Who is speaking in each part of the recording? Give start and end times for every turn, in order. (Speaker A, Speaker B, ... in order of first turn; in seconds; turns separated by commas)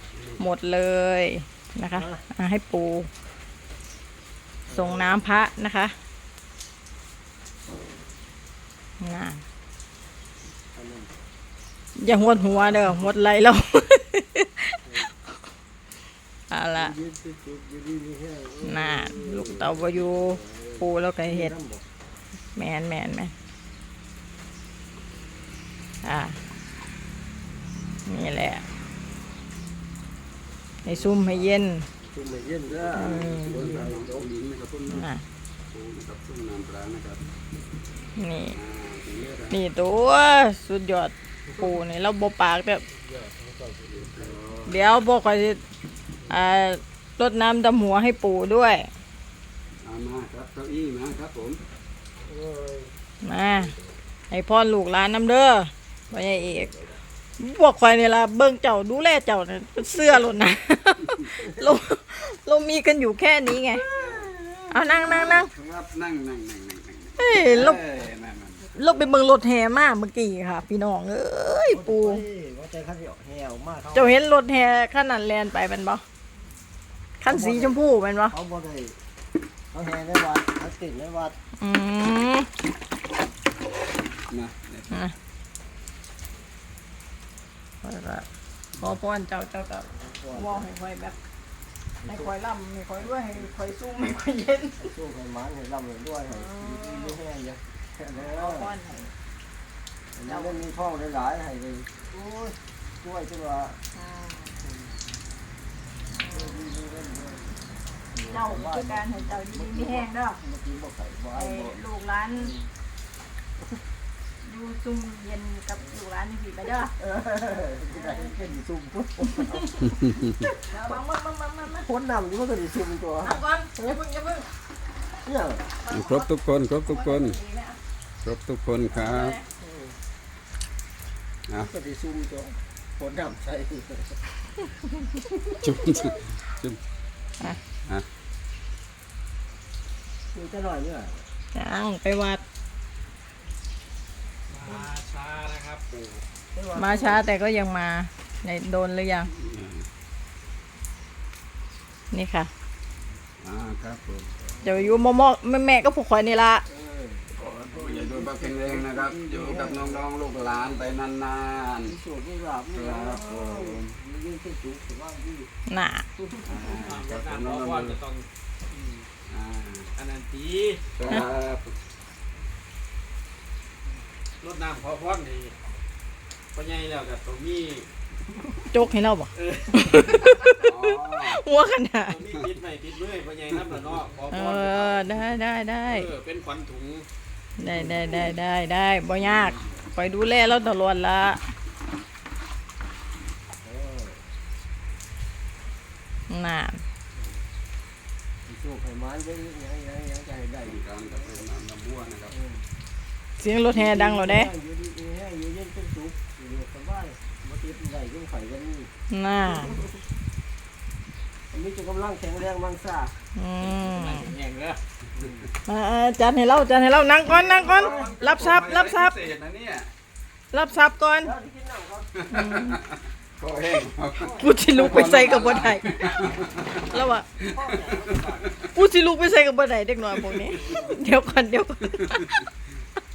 Speaker A: 0.4-3.1, Speaker B: 1.9-2.2, Speaker B: 4.7-5.2, Speaker A: 4.7-5.9, Speaker A: 9.0-9.4, Speaker B: 10.7-11.1, Speaker A: 12.0-15.1, Speaker A: 16.5-16.9, Speaker B: 16.7-21.8, Speaker A: 18.6-21.5, Speaker A: 22.6-23.3, Speaker A: 26.0-26.4, Speaker A: 28.1-28.6, Speaker A: 30.8-31.9, Speaker B: 30.8-34.3, Speaker C: 32.6-35.1, Speaker A: 33.0-33.6, Speaker A: 34.9-35.2, Speaker C: 35.7-37.2, Speaker A: 38.2-38.6, Speaker C: 38.5-39.6, Speaker A: 39.5-42.8, Speaker B: 41.5-41.8, Speaker B: 43.0-44.4, Speaker C: 44.0-44.9, Speaker A: 44.6-45.6, Speaker A: 46.3-48.9, Speaker C: 49.8-51.6, Speaker B: 52.2-52.9, Speaker A: 53.2-53.7, Speaker A: 54.3-56.7, Speaker A: 57.4-63.8, Speaker B: 63.7-65.2, Speaker C: 63.9-64.3, Speaker A: 64.7-65.5, Speaker C: 65.0-68.7, Speaker A: 67.2-67.8, Speaker A: 68.7-72.2, Speaker B: 71.7-74.2, Speaker A: 73.9-76.0, Speaker A: 77.2-78.3, Speaker B: 77.2-77.8, Speaker B: 78.3-79.0, Speaker B: 79.7-81.3, Speaker A: 81.6-82.5, Speaker C: 84.3-85.0, Speaker A: 87.8-88.2, Speaker A: 88.8-91.2, Speaker B: 89.9-90.7, Speaker B: 92.0-92.3, Speaker A: 92.0-94.9, Speaker B: 94.8-98.7, Speaker A: 96.3-97.2, Speaker A: 98.1-99.1, Speaker B: 100.1-103.8, Speaker A: 100.2-100.6, Speaker A: 103.9-104.6, Speaker B: 104.6-104.9, Speaker A: 106.1-106.6, Speaker B: 106.2-107.5, Speaker B: 108.1-111.8, Speaker A: 108.2-110.4, Speaker A: 111.3-112.5, Speaker B: 112.3-112.7, Speaker A: 114.4-116.9, Speaker B: 117.0-119.9, Speaker A: 117.9-118.4, Speaker A: 119.4-119.7, Speaker A: 120.4-121.9, Speaker B: 120.7-121.0, Speaker B: 121.8-123.4, Speaker A: 123.2-124.5, Speaker B: 125.2-125.7, Speaker A: 125.8-126.3, Speaker C: 125.9-127.4, Speaker A: 126.9-127.8, Speaker C: 128.2-129.4, Speaker A: 128.9-129.4, Speaker B: 129.6-129.9, Speaker B: 131.6-134.2, Speaker C: 135.6-136.8, Speaker B: 140.3-141.2, Speaker A: 141.5-142.4, Speaker D: 144.5-146.2, Speaker B: 146.5-147.2, Speaker A: 146.7-149.3, Speaker C: 149.3-149.9, Speaker A: 152.1-152.5, Speaker C: 153.4-154.3, Speaker B: 154.4-155.1, Speaker A: 154.6-156.6, Speaker B: 156.7-160.9, Speaker C: 157.3-161.9, Speaker B: 161.8-165.5, Speaker C: 162.7-163.9, Speaker A: 165.7-166.0, Speaker B: 166.1-166.9, Speaker C: 166.4-168.0, Speaker D: 166.8-169.1, Speaker C: 169.3-169.9, Speaker D: 169.9-170.8, Speaker C: 171.0-171.7, Speaker D: 174.4-175.6, Speaker D: 176.5-177.9, Speaker A: 178.7-182.2, Speaker D: 179.3-180.3, Speaker C: 180.6-181.4, Speaker D: 182.0-185.2, Speaker A: 184.3-186.1, Speaker D: 185.8-187.1, Speaker A: 187.6-191.4, Speaker B: 187.6-188.3, Speaker B: 193.6-194.2, Speaker A: 196.3-196.8, Speaker B: 198.4-201.4, Speaker C: 200.6-202.3, Speaker B: 202.3-202.7, Speaker A: 203.4-204.5, Speaker B: 203.7-209.9, Speaker A: 209.1-209.8, Speaker B: 211.5-213.2, Speaker A: 213.3-214.3, Speaker D: 213.6-214.8, Speaker B: 215.1-215.5, Speaker A: 215.7-219.2, Speaker C: 217.3-219.9, Speaker B: 217.6-218.2, Speaker A: 220.5-221.3, Speaker B: 221.2-222.2, Speaker C: 222.2-228.7, Speaker A: 222.3-222.8, Speaker A: 224.2-225.9, Speaker B: 226.7-228.5, Speaker A: 226.9-227.2, Speaker A: 228.7-232.2, Speaker C: 230.1-230.9, Speaker B: 230.6-230.9, Speaker C: 232.0-232.4